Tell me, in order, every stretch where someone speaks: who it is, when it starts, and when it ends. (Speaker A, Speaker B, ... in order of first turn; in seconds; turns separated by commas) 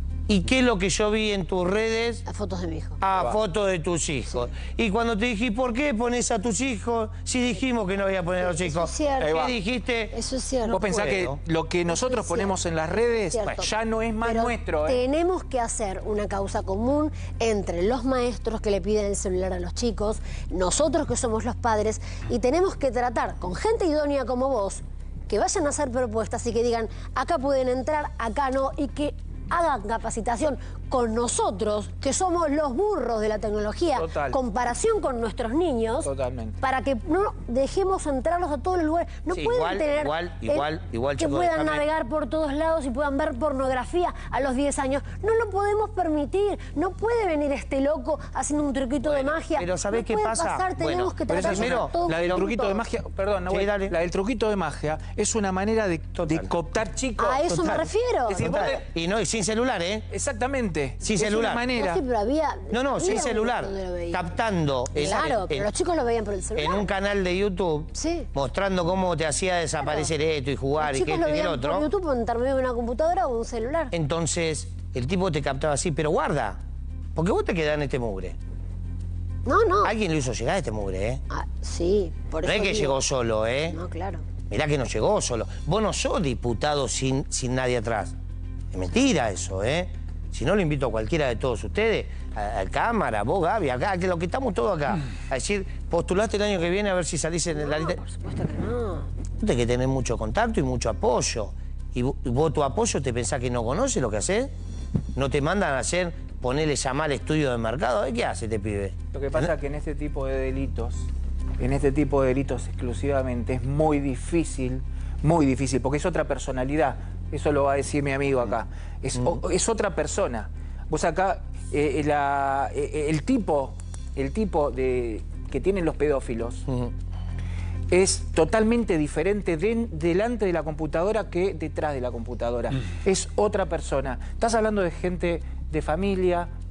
Speaker A: 0.3-2.2, Speaker B: 2.3-3.0, Speaker A: 3.0-10.2, Speaker B: 8.4-9.5, Speaker C: 9.2-9.6, Speaker B: 10.1-11.0, Speaker C: 10.7-15.0, Speaker A: 10.8-11.4, Speaker B: 11.9-13.7, Speaker B: 14.2-36.1, Speaker C: 34.0-34.4, Speaker C: 36.0-36.6, Speaker B: 36.6-52.8, Speaker A: 39.3-41.9, Speaker A: 49.0-52.4, Speaker C: 51.3-57.7, Speaker A: 53.5-54.0, Speaker A: 56.1-56.5, Speaker B: 57.2-58.7, Speaker A: 57.5-57.9, Speaker C: 58.3-58.9, Speaker A: 58.4-60.1, Speaker C: 60.1-62.0, Speaker A: 61.0-61.7, Speaker B: 61.8-64.3, Speaker A: 62.7-65.7, Speaker B: 64.9-66.9, Speaker A: 66.6-71.9, Speaker B: 68.0-68.3, Speaker B: 69.8-70.1, Speaker B: 70.8-73.9, Speaker A: 73.9-76.6, Speaker A: 77.2-78.4, Speaker B: 79.5-79.9, Speaker A: 79.8-81.2, Speaker B: 81.3-83.0, Speaker A: 82.4-83.8, Speaker B: 83.7-84.2, Speaker A: 84.5-88.1, Speaker A: 88.7-98.0, Speaker B: 97.5-99.1, Speaker A: 99.4-104.5, Speaker A: 105.2-109.5, Speaker C: 109.1-126.7, Speaker C: 127.9-136.5